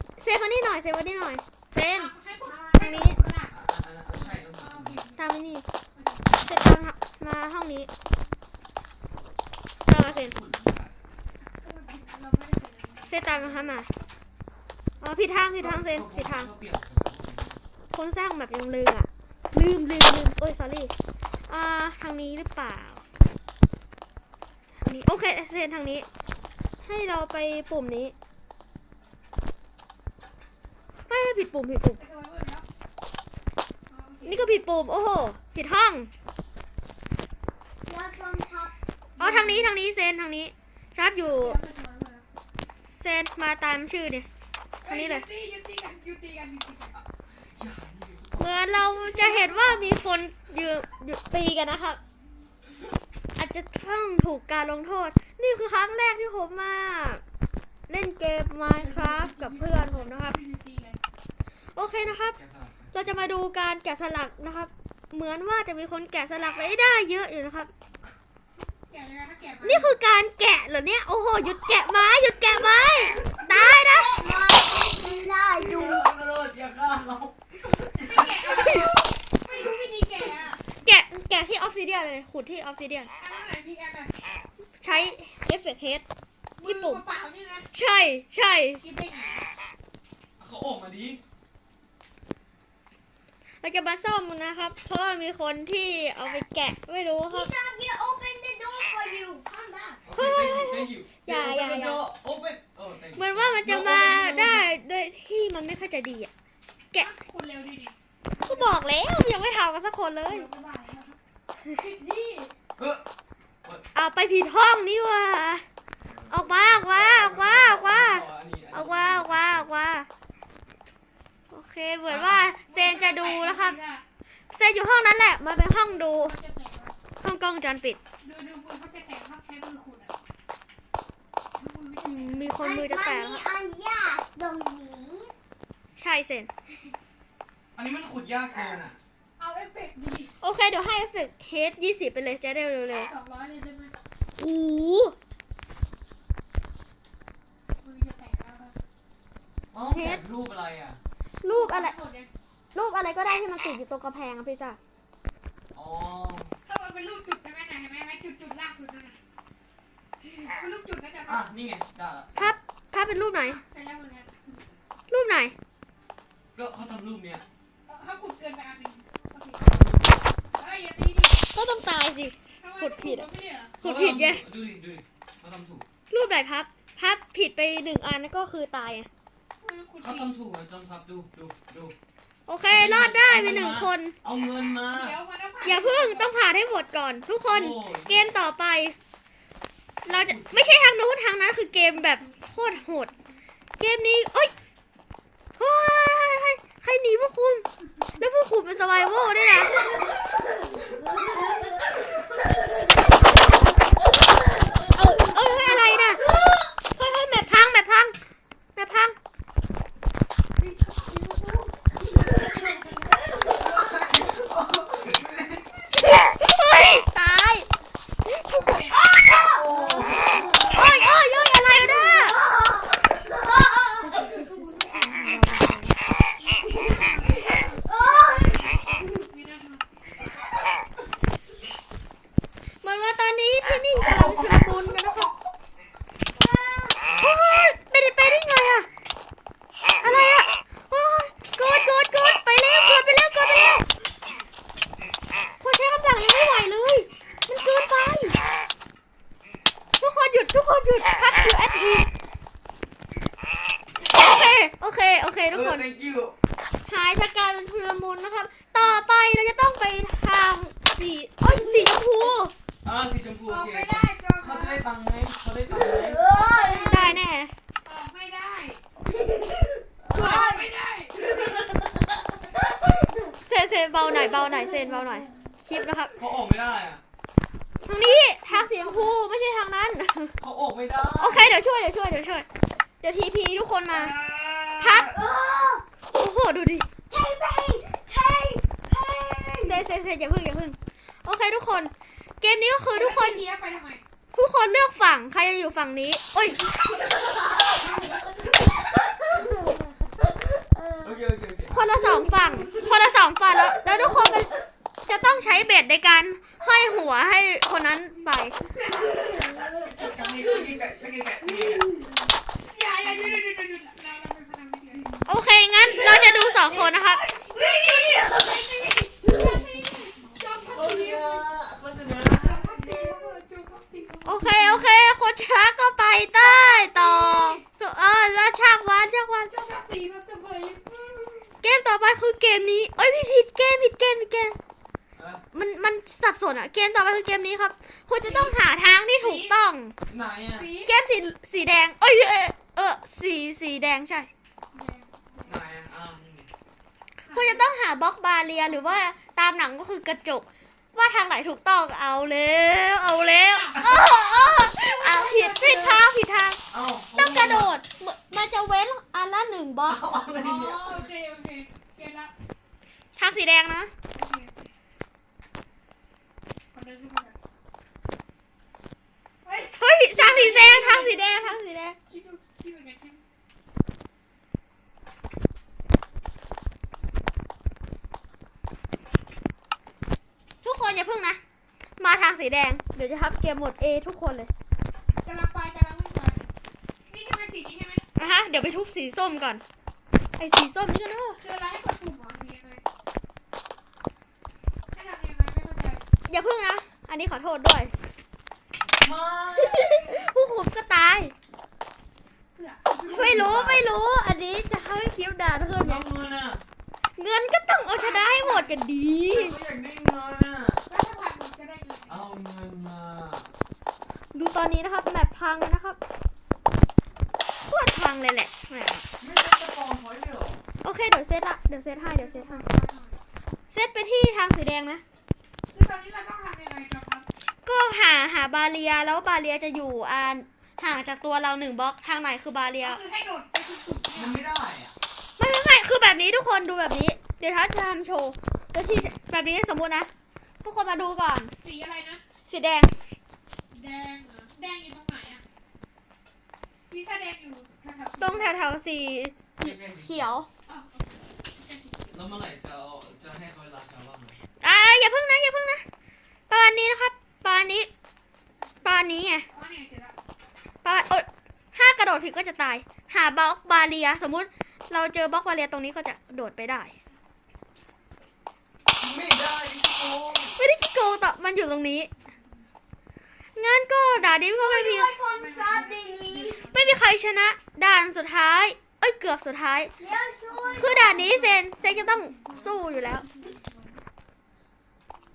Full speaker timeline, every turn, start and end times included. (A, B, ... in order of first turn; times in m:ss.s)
0:00.2-0:02.1 A
0:01.9-0:03.5 B
0:02.4-0:03.0 C
0:02.8-0:03.2 A
0:03.5-0:05.0 D
0:04.1-0:05.3 B
0:05.2-0:05.6 A
0:06.0-0:06.5 B
0:06.4-0:07.9 A
0:09.9-0:10.3 A
0:09.9-0:11.0 D
0:11.4-0:13.8 B
0:13.1-0:13.9 A
0:15.0-0:16.5 A
0:15.6-0:17.6 D
0:17.9-0:20.9 A
0:21.5-0:23.0 A
0:24.8-0:26.1 A
0:26.8-0:28.1 A
0:31.1-0:32.0 A
0:32.0-0:32.6 B
0:33.9-0:34.6 B
0:34.2-0:36.1 A
0:37.8-0:38.8 C
0:39.2-0:39.8 B
0:39.2-0:41.6 A
0:41.3-0:42.2 B
0:42.9-0:44.3 A
0:44.8-0:46.9 B
0:44.8-0:45.2 A
0:47.0-0:48.8 D
0:48.4-0:52.0 A
0:48.9-0:50.0 B
0:53.4-0:57.2 A
0:57.9-1:00.4 A
0:58.7-1:01.0 B
1:01.8-1:02.4 A
1:02.0-1:03.3 D
1:02.9-1:07.7 A
1:08.8-1:09.9 B
1:09.6-1:14.2 A
1:13.8-1:16.0 C
1:15.6-1:18.3 D
1:18.0-1:20.6 B
1:18.5-1:18.9 A
1:20.8-1:23.1 A
1:23.2-1:24.4 B
1:24.8-1:26.0 A
1:26.6-1:27.7 B
1:26.6-1:27.0 A
1:27.7-1:28.8 A
1:28.8-1:29.5 B
1:30.4-1:31.2 D
1:33.6-1:37.5 A
1:37.3-1:40.0 C
1:40.0-1:44.7 D
1:40.1-1:42.0 A
1:43.2-1:46.3 A
1:47.0-1:48.8 B
1:48.4-1:50.5 A
1:50.3-1:51.2 B
1:51.8-1:52.5 B
1:52.8-1:53.0 D
1:54.0-1:55.6 A
1:56.1-1:59.7 D
1:56.3-2:00.1 A
2:01.5-2:03.8 A
2:02.1-2:02.5 D
2:02.7-2:04.0 B
2:04.5-2:06.3 A
2:05.8-2:06.9 B
2:07.2-2:08.0 A
2:08.2-2:10.1 B
2:11.6-2:12.5 B
2:12.0-2:13.4 A
2:12.6-2:15.3 C
2:16.0-2:16.5 A
2:17.8-2:19.0 D
2:19.4-2:20.4 B
2:20.4-2:23.1 A
2:23.0-2:24.0 B
2:24.4-2:25.2 A
2:27.8-2:28.7 B
2:29.7-2:31.0 D
2:29.9-2:30.2 A
2:31.4-2:32.0 A
2:31.5-2:32.3 B
2:32.7-2:34.8 A
2:35.7-2:36.5 D
2:36.7-2:39.2 B
2:40.2-2:41.5 B
2:41.3-2:42.6 D
2:42.4-2:43.6 A
2:43.4-2:44.8 B
2:45.1-2:45.6 A
2:46.6-2:47.4 D
2:47.9-2:49.6 B
2:49.6-2:50.3 D
2:50.5-2:51.4 B
2:51.5-2:53.3 A
2:52.6-2:53.8 B
2:53.8-2:54.4 A
2:53.8-2:55.8 D
2:56.1-2:59.1 A
2:59.6-3:00.3 B
3:00.0-3:02.0 D
3:02.5-3:04.2 A
3:02.7-3:05.2 D
3:04.9-3:06.3 B
3:05.6-3:09.0 A
3:07.5-3:08.4 D
3:10.0-3:10.9 D
3:10.0-3:13.1 A
3:11.9-3:12.8 B
3:13.8-3:14.5 A
3:15.6-3:17.6 A
3:18.2-3:19.8 A
3:24.8-3:26.3 A
3:26.9-3:28.2 A
3:28.8-3:29.2 A
3:30.6-3:33.0 B
3:33.6-3:35.7 D
3:36.1-3:37.7 A
3:38.4-3:39.0 B
3:39.0-3:45.4 C
3:39.5-3:40.5 D
3:40.7-3:42.4 A
3:44.1-3:44.7 B
3:46.4-3:49.9 B
3:47.7-3:48.7 C
3:52.8-3:55.3 A
3:56.3-3:57.1 C
3:57.2-3:58.9 A
4:00.0-4:03.9 A
4:05.6-4:08.4 A
4:10.0-4:12.1 A
4:14.0-4:15.8 A
4:15.5-4:16.4 D
4:16.9-4:22.5 A
4:21.5-4:21.8 C
4:22.8-4:26.2 D
4:23.5-4:24.8 B
4:25.7-4:27.2 C
4:26.3-4:27.2 B
4:26.8-4:27.5 A
4:27.8-4:28.8 B
4:29.2-4:29.5 C
4:30.0-4:30.7 C
4:30.1-4:30.5 A
4:30.1-4:31.2 B
4:31.5-4:31.9 C
4:33.4-4:36.2 A
4:34.3-4:35.3 C
4:36.2-4:37.0 D
4:37.8-4:40.3 A
4:37.9-4:39.2 B
4:40.4-4:41.6 D
4:41.2-4:42.5 A
4:43.0-4:44.1 A
4:43.9-4:45.2 D
4:44.8-4:45.1 A
4:45.1-4:45.8 C
4:46.1-4:46.9 A
4:47.1-4:49.8 C
4:49.6-4:53.4 A
4:52.9-4:54.0 B
4:54.4-4:56.6 A
4:57.3-5:01.2 C
5:01.0-5:01.9 D
5:01.7-5:04.5 A
5:02.0-5:02.8 C
5:03.8-5:04.3 C
5:05.1-5:08.6 A
5:08.7-5:09.2 B
5:09.0-5:10.5 C
5:10.0-5:11.9 D
5:12.7-5:15.2 B
5:15.3-5:17.2 A
5:17.3-5:21.4 B
5:17.5-5:19.9 C
5:20.7-5:23.1 D
5:22.3-5:24.9 B
5:24.3-5:29.5 A
5:26.4-5:27.6 B
5:29.5-5:31.5 B
5:31.6-5:34.6 A
5:35.2-5:35.4 D
5:35.5-5:40.0 A
5:38.2-5:38.6 B
5:39.2-5:39.5 B
5:40.1-5:40.7 D
5:40.6-5:40.9 B
5:40.9-5:44.3 A
5:44.7-5:45.6 B
5:45.5-5:46.5 D
5:47.3-5:47.6 B
5:47.3-5:56.6 A
5:48.6-5:49.0 B
5:53.5-5:56.0 B
5:56.7-5:57.8 D
5:57.2-6:00.0 A
5:59.8-6:01.0 D
6:00.4-6:02.3 B
6:03.2-6:03.9 A
6:04.2-6:04.7 B
6:06.7-6:07.4 B
6:09.4-6:11.6 B
6:09.8-6:12.0 A
6:12.1-6:13.2 B
6:20.6-6:21.4 A
6:22.0-6:24.5 A
6:25.2-6:26.5 B
6:27.1-6:28.0 B
6:28.2-6:29.6 A
6:30.4-6:31.4 A
6:31.4-6:32.8 B
6:34.9-6:36.0 B
6:36.3-6:37.9 A
6:39.0-6:40.3 D
6:39.6-6:41.3 A
6:42.6-6:43.6 B
6:43.1-6:46.0 A
6:43.1-6:43.9 D
6:45.8-6:46.6 D
6:47.2-6:49.6 A
6:47.9-6:48.8 B
6:49.3-6:50.8 D
6:50.9-6:52.2 B
6:52.1-6:53.5 D
6:54.3-6:56.0 A
6:57.6-6:59.0 A
6:59.2-7:00.6 D
7:00.8-7:02.6 A
7:02.0-7:03.2 B
7:03.7-7:05.0 A
7:05.7-7:07.2 B
7:07.6-7:13.0 A
7:12.8-7:14.4 B
7:14.2-7:15.0 D
7:15.4-7:20.1 A
7:20.6-7:21.5 A
7:21.6-7:22.2 B
7:22.5-7:22.9 A
7:23.7-7:25.4 B
7:26.9-7:28.6 B
7:28.2-7:30.5 A
7:29.6-7:30.4 D
7:30.7-7:32.2 B
7:32.1-7:34.4 D
7:34.6-7:35.8 A
7:36.5-7:37.9 A
7:38.8-7:39.5 A
7:39.5-7:40.2 B
7:40.8-7:46.9 A
7:49.0-7:50.6 D
7:50.6-7:52.1 A
7:52.3-7:52.7 B
7:53.6-7:55.1 A
7:54.5-7:56.6 C
7:55.3-7:57.0 B
7:56.7-7:59.9 A
8:00.0-8:01.2 C
8:00.5-8:04.0 B
8:00.8-8:03.3 A